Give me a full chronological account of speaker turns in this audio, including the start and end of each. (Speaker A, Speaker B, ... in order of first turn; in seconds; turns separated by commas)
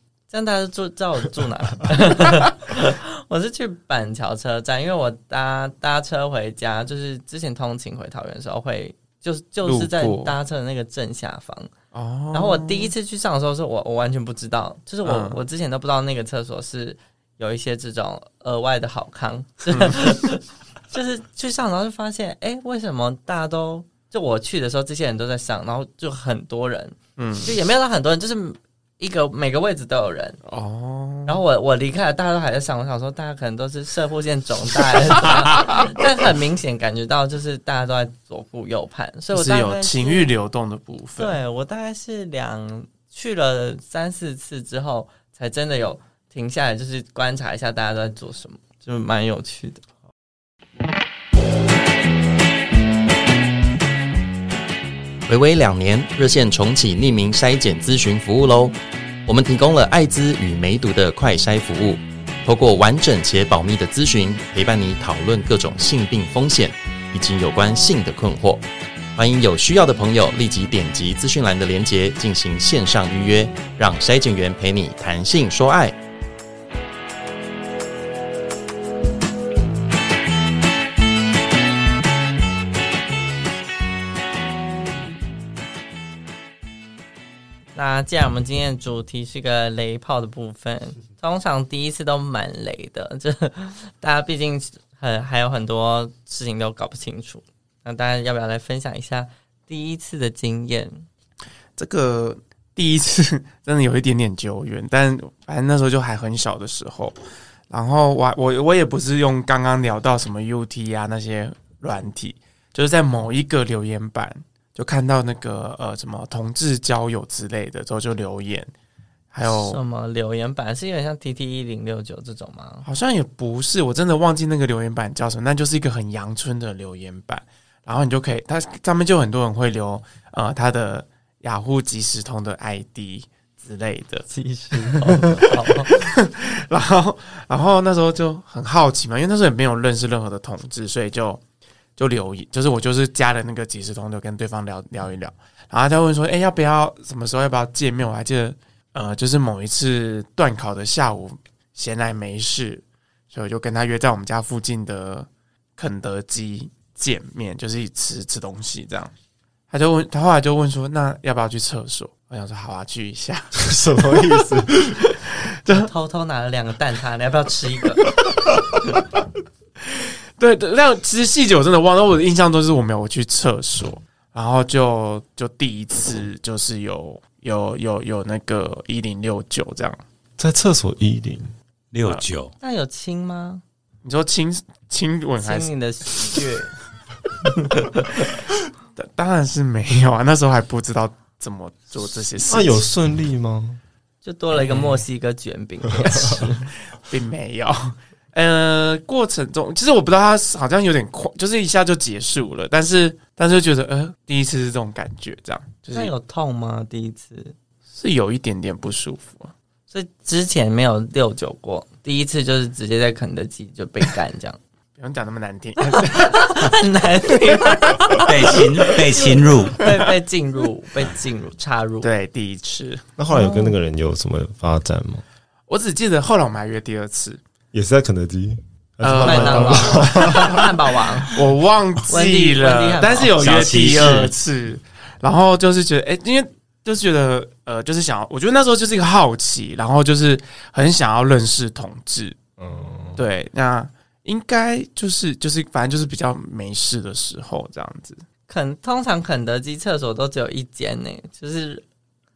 Speaker A: 0.3-11.7, Speaker B: 9.6-10.3, Speaker B: 11.9-12.9, Speaker A: 12.3-30.4, Speaker B: 15.0-15.4, Speaker B: 19.7-20.1, Speaker B: 27.2-27.5, Speaker B: 30.4-31.4, Speaker A: 31.2-40.3, Speaker B: 39.3-41.4, Speaker A: 41.2-49.8, Speaker C: 55.3-76.0, Speaker A: 87.7-101.0, Speaker B: 101.8-107.2, Speaker B: 107.7-118.7, Speaker B: 119.3-119.8, Speaker A: 119.4-122.8, Speaker B: 122.8-141.4, Speaker A: 134.3-135.9, Speaker B: 142.0-159.1, Speaker B: 159.7-165.9, Speaker D: 163.5-165.0, Speaker A: 165.7-168.1, Speaker B: 169.9-180.0, Speaker D: 180.4-181.5, Speaker E: 181.9-182.5, Speaker A: 182.6-183.6, Speaker B: 184.0-185.7, Speaker A: 185.4-186.7, Speaker A: 187.6-188.2, Speaker B: 188.9-192.8, Speaker D: 192.4-193.8, Speaker A: 194.2-196.7, Speaker B: 194.5-195.1, Speaker B: 197.0-206.1, Speaker A: 205.9-207.5, Speaker B: 207.9-209.5, Speaker A: 209.9-214.6, Speaker B: 215.0-216.7, Speaker A: 215.9-218.9, Speaker B: 217.3-218.2, Speaker E: 218.2-219.8, Speaker A: 219.8-222.1, Speaker B: 222.0-223.0, Speaker D: 223.2-225.2, Speaker A: 223.3-223.7, Speaker B: 225.7-227.4, Speaker D: 227.7-230.7, Speaker B: 229.0-230.7, Speaker A: 229.2-231.3, Speaker B: 231.3-242.4, Speaker A: 232.1-233.3, Speaker E: 233.4-234.3, Speaker D: 242.6-243.2, Speaker B: 243.2-248.2, Speaker A: 248.5-251.8